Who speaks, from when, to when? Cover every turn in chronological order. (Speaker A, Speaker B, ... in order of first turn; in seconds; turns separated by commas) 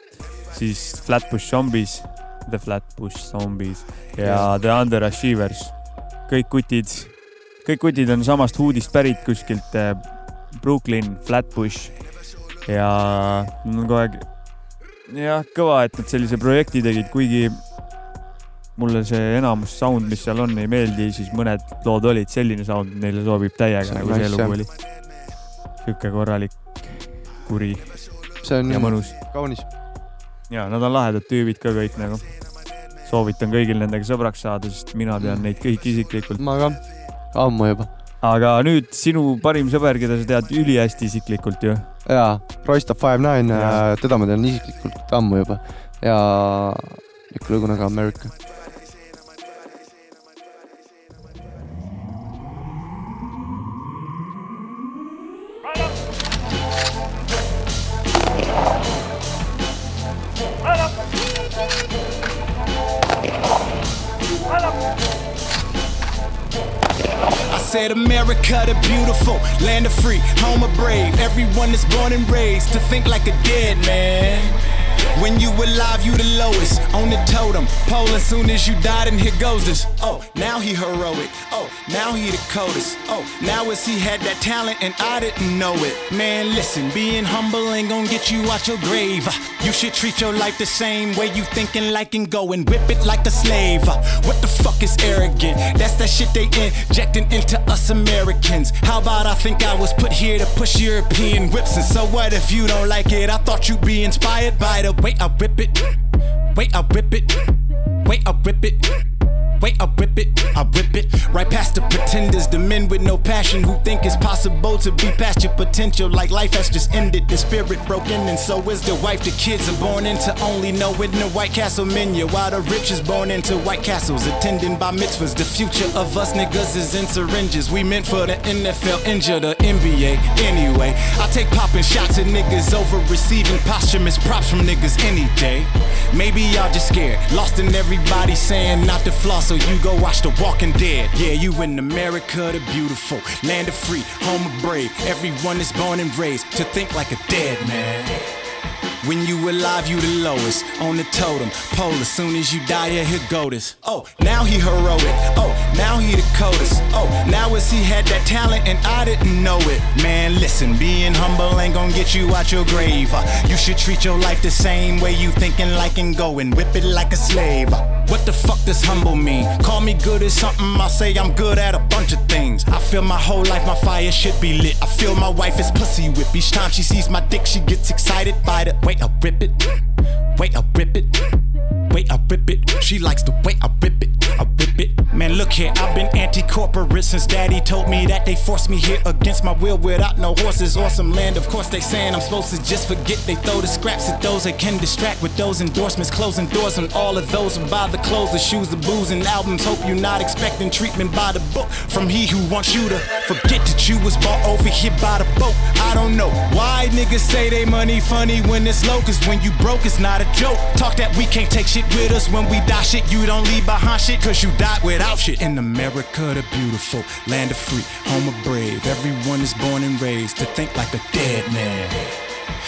Speaker A: 0.5-5.7, Speaker A: 6.3-7.1, Speaker A: 7.6-10.0, Speaker A: 10.5-11.9, Speaker A: 12.7-14.2, Speaker A: 15.1-17.6, Speaker A: 18.8-24.7, Speaker B: 23.8-24.6, Speaker A: 25.8-27.8, Speaker B: 28.4-29.6, Speaker A: 28.7-29.1, Speaker A: 30.5-32.2, Speaker A: 33.0-36.4, Speaker B: 35.2-35.5, Speaker B: 36.4-36.8, Speaker B: 37.3-37.9, Speaker A: 38.2-41.9, Speaker B: 42.0-48.3, Speaker A: 43.5-43.8, Speaker C: 67.5-74.5, Speaker C: 75.1-105.9, Speaker C: 106.5-107.5, Speaker C: 108.0-108.9, Speaker C: 109.6-148.2, Speaker C: 149.0-179.6, Speaker C: 180.4-181.2, Speaker C: 181.9-222.1